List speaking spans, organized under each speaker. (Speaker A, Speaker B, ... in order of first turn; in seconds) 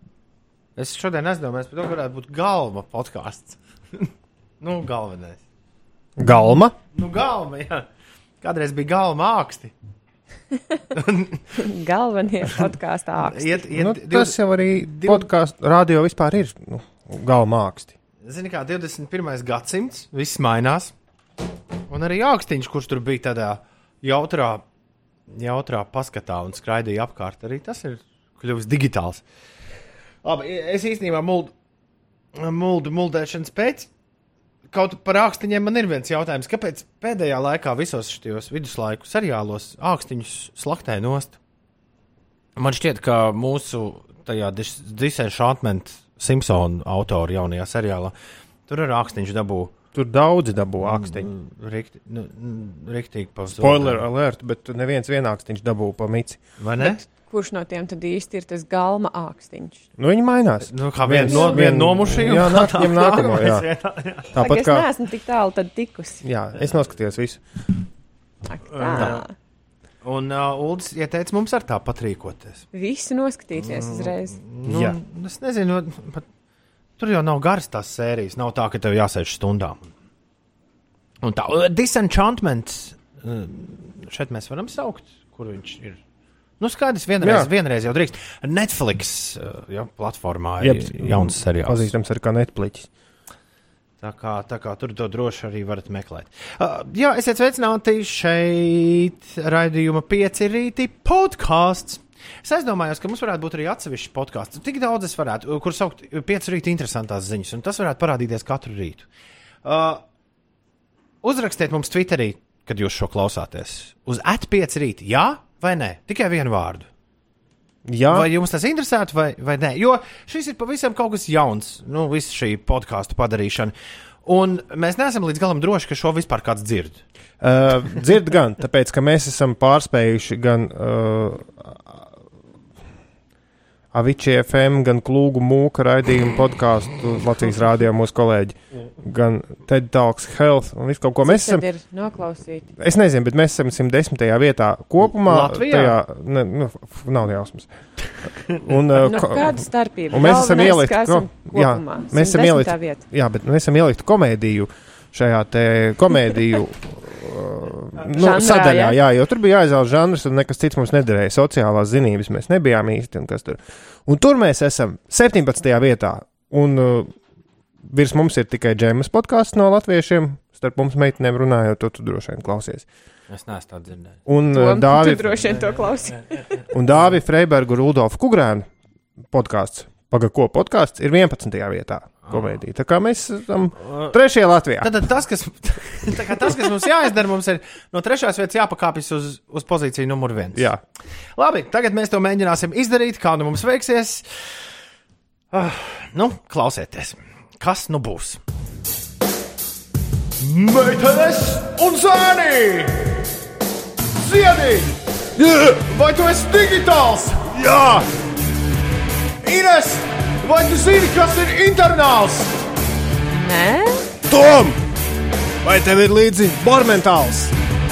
Speaker A: 0.8-4.1, 4.6-5.4, 6.9-7.8, 8.4-9.7, 10.9-11.7, 13.2-15.3, 18.2-20.9, 21.9-24.6, 25.3-29.2, 30.2-31.5, 32.4-33.9, 34.7-41.4, 42.6-48.1, 48.7-49.7, 50.8-54.0, 56.6-57.0, 60.6-64.4, 68.7-69.2, 70.0-72.7, 73.6-76.3, 77.0-79.9, 81.2-86.0, 86.6-91.9, 94.0-109.1, 109.6-110.0, 111.2-116.9, 118.1-127.0, 145.0-146.0, 173.3-174.2, 175.7-176.4, 182.3-182.5, 184.8-190.7, 191.4-194.3, 195.5-198.4, 200.4-203.2, 204.2-208.0, 209.4-212.6
Speaker B: 6.2-6.8, 13.8-17.9, 49.9-51.3, 53.6-56.4, 60.0-63.7, 64.3-64.9, 66.2-67.4, 74.7-75.0, 87.2-87.5, 90.6-92.9, 117.9-118.3, 127.4-132.1, 133.9-141.6, 142.8-147.7, 148.5-167.1, 167.8-172.9, 174.3-175.7, 176.7-178.7, 179.3-184.9, 190.6-190.8, 214.3-214.8, 215.6-217.5
Speaker C: 11.6-13.6, 56.8-59.8, 61.3-61.7, 64.4-66.2, 68.5-69.3, 72.7-74.4, 141.2-142.7, 149.0-153.0, 158.2-159.0, 174.5-176.6, 213.3-214.1